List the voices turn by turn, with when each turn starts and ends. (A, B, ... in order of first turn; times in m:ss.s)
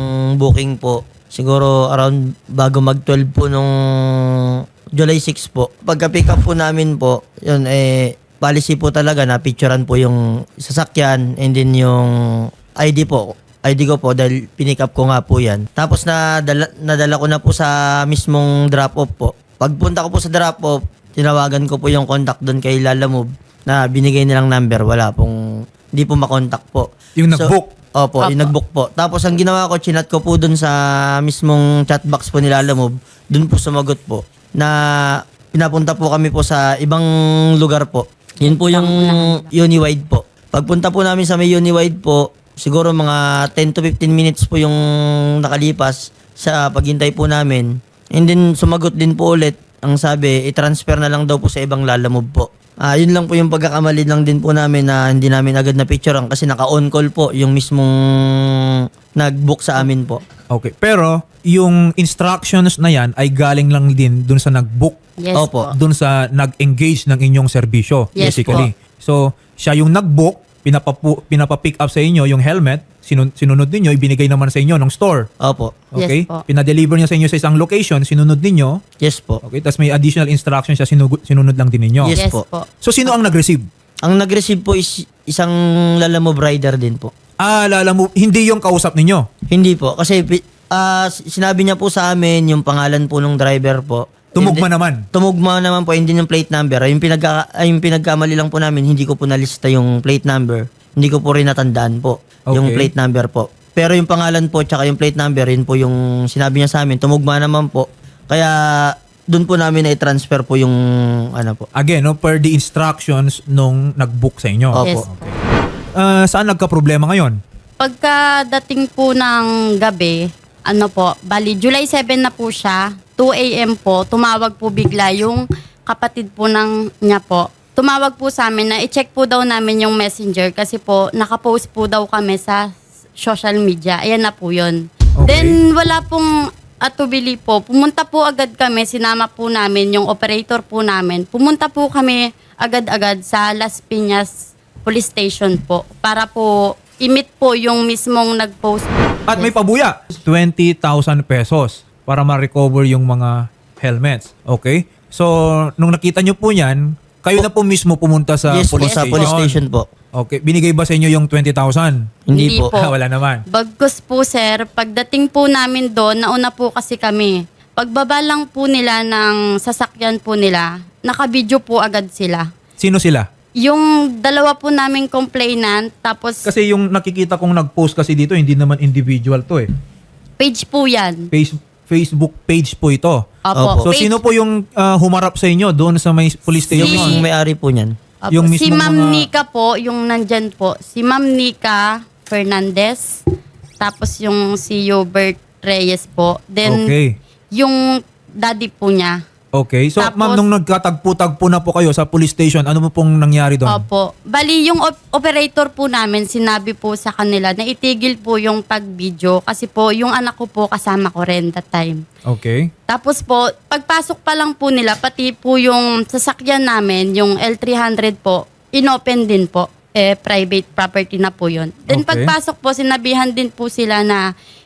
0:00.4-0:04.2 A
0:05.0-0:12.1 A
0:12.8-0:25.4 A
0:26.0-0:44.8 A
0:27.2-0:27.7 B
0:28.2-0:28.5 C
0:38.4-0:39.5 C
0:45.4-1:00.2 A
1:00.5-1:05.0 B
1:05.2-1:05.6 C
1:05.4-1:05.7 A
1:05.7-1:15.3 B
1:08.2-1:08.7 C
1:08.2-1:08.7 A
1:15.4-1:15.8 A
1:15.9-1:18.8 B
1:16.0-1:16.4 C
1:19.0-1:19.4 A
1:19.4-1:22.1 B
1:22.0-1:22.4 A
1:22.1-1:22.7 C
1:22.8-1:23.7 B
1:24.0-1:27.1 A
1:27.4-1:29.3 B
1:29.5-1:34.6 A
1:34.4-1:35.0 B
1:35.1-1:50.8 A
1:42.5-1:42.9 B
1:51.3-1:51.7 A
1:51.8-1:55.4 B
1:54.8-1:55.0 A
1:54.8-1:55.1 C
1:56.0-1:57.4 B
1:57.8-2:16.3 C
2:15.2-2:15.6 B
2:16.8-2:29.5 C
2:29.3-2:39.6 B
2:38.5-2:39.9 A
2:38.8-2:39.4 C
2:40.1-2:42.0 B
2:42.3-2:42.7 A
2:42.3-2:42.9 C
2:42.7-2:43.4 B
2:43.5-2:52.5 C
2:52.8-2:53.3 B
2:53.6-2:56.4 C
2:56.5-2:59.7 B
3:00.4-3:01.3 C
3:01.3-3:03.2 B
3:03.4-3:04.2 C
3:03.6-3:03.9 A
3:03.8-3:07.2 B
3:06.7-3:08.0 A
3:06.8-3:07.2 C
3:08.2-3:13.2 C
3:08.3-3:09.3 B
3:13.8-3:16.9 C
3:16.6-3:17.2 B
3:17.6-3:19.2 C
3:19.5-3:23.8 B
3:20.0-3:20.4 C
3:23.7-3:32.0 C
3:32.3-3:32.7 B
3:32.9-3:44.3 C
3:41.9-3:42.3 B